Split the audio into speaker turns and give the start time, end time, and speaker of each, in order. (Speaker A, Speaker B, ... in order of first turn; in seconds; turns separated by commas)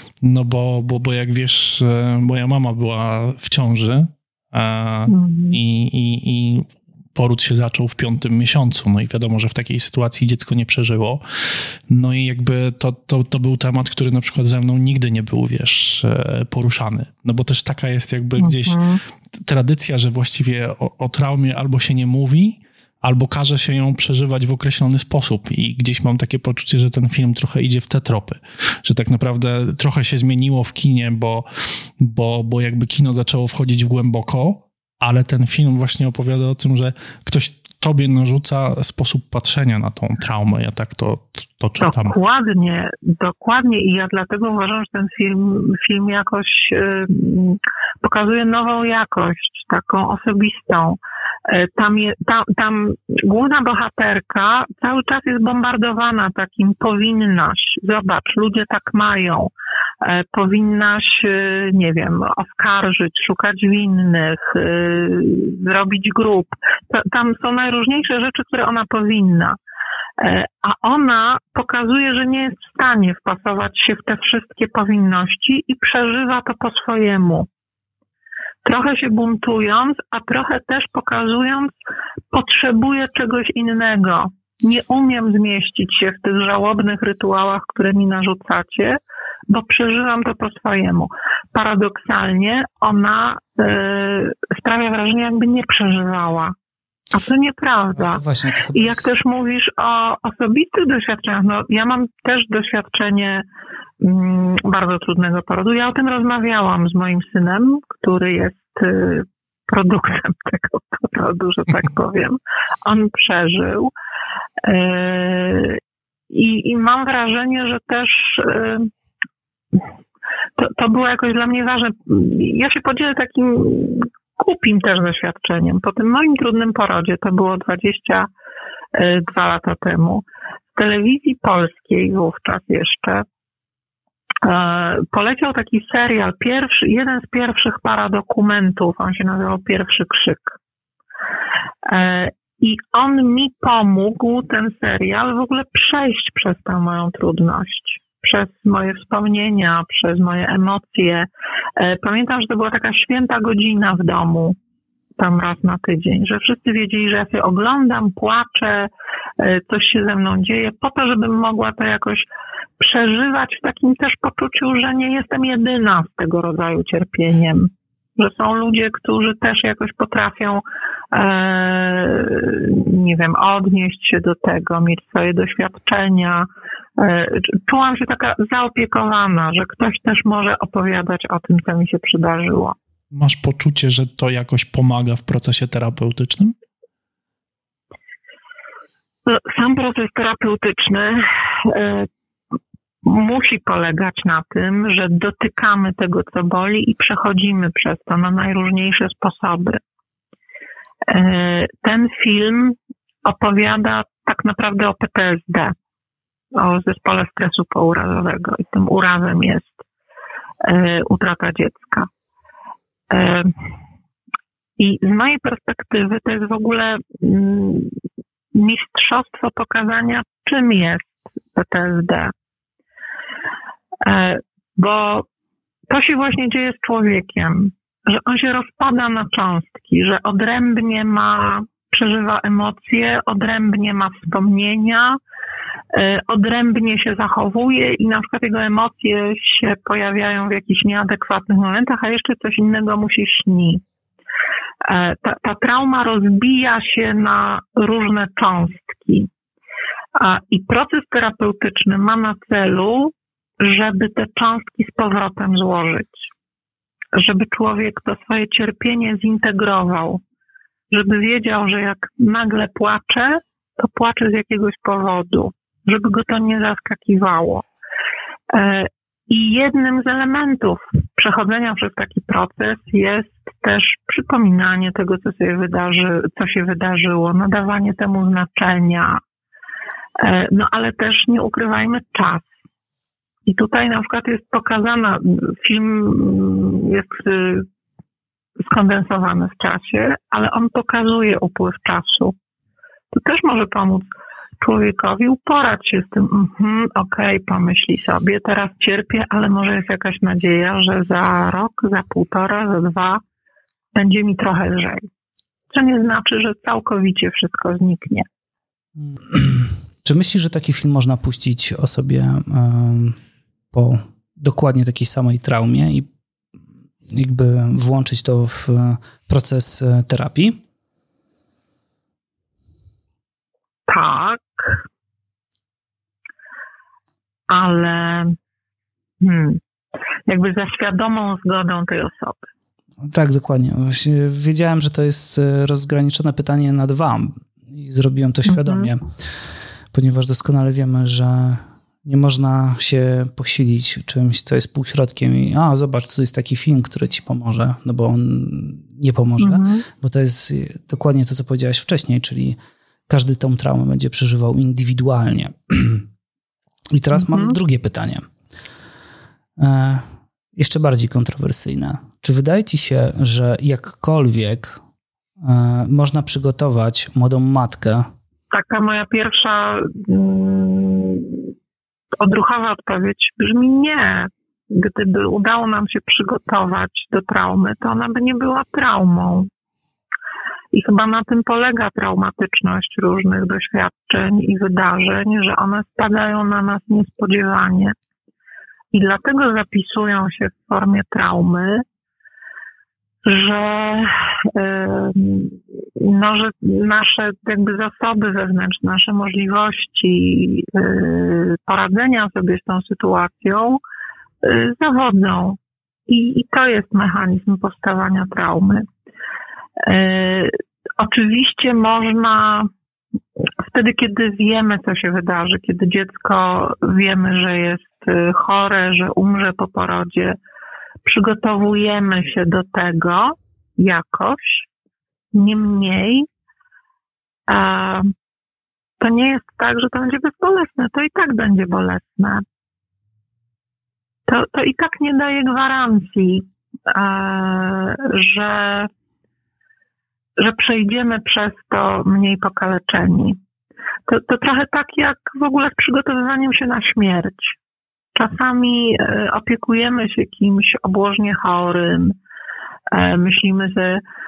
Speaker A: 0.2-11.2, Speaker B: 5.1-5.6, Speaker A: 11.9-42.2, Speaker B: 18.4-19.0, Speaker B: 41.8-59.5, Speaker B: 60.0-69.6, Speaker B: 70.2-77.5, Speaker B: 78.7-81.7, Speaker B: 82.3-89.0, Speaker B: 89.5-96.5, Speaker B: 97.1-98.2, Speaker C: 97.9-99.1, Speaker B: 98.7-103.5, Speaker B: 104.0-113.9, Speaker B: 114.7-118.9, Speaker B: 120.6-128.3, Speaker B: 128.9-133.2, Speaker B: 134.4-140.6, Speaker B: 141.9-154.6, Speaker B: 155.2-162.2, Speaker B: 162.8-182.8, Speaker A: 183.1-186.6, Speaker B: 189.3-192.1, Speaker B: 193.1-199.8, Speaker B: 201.1-205.7, Speaker B: 206.6-209.8, Speaker B: 210.6-212.1, Speaker B: 213.1-213.5, Speaker B: 214.8-217.9, Speaker B: 218.6-222.3, Speaker B: 224.0-225.3, Speaker B: 225.9-235.2, Speaker B: 235.9-243.8, Speaker B: 244.8-249.3, Speaker B: 250.2-256.3, Speaker B: 257.1-260.2, Speaker B: 260.9-267.6, Speaker B: 268.5-279.2, Speaker B: 280.2-282.5, Speaker B: 283.5-287.7, Speaker B: 288.6-292.4, Speaker B: 293.1-294.1, Speaker B: 294.6-303.2, Speaker B: 303.9-305.1, Speaker B: 305.7-308.3, Speaker C: 309.0-313.2, Speaker C: 313.7-316.1, Speaker C: 317.1-320.6, Speaker B: 323.9-324.8, Speaker B: 327.5-328.4, Speaker B: 329.2-329.6, Speaker B: 330.3-332.5, Speaker C: 333.0-339.0, Speaker B: 338.5-338.9, Speaker C: 339.9-352.6, Speaker B: 349.4-349.8, Speaker C: 353.1-356.1, Speaker C: 356.9-358.3, Speaker B: 357.1-357.6, Speaker C: 359.6-364.8, Speaker C: 365.4-368.1, Speaker B: 368.5-371.5, Speaker B: 372.2-379.5, Speaker B: 380.7-387.9, Speaker B: 388.9-391.9, Speaker B: 393.2-403.8, Speaker B: 404.4-408.9, Speaker B: 409.8-412.7, Speaker B: 413.6-420.4, Speaker B: 421.1-424.7, Speaker B: 425.3-426.3, Speaker B: 427.5-428.1, Speaker B: 429.0-432.4, Speaker B: 434.3-438.9, Speaker B: 440.4-443.4, Speaker B: 444.1-447.6, Speaker B: 448.2-452.2, Speaker B: 452.9-454.0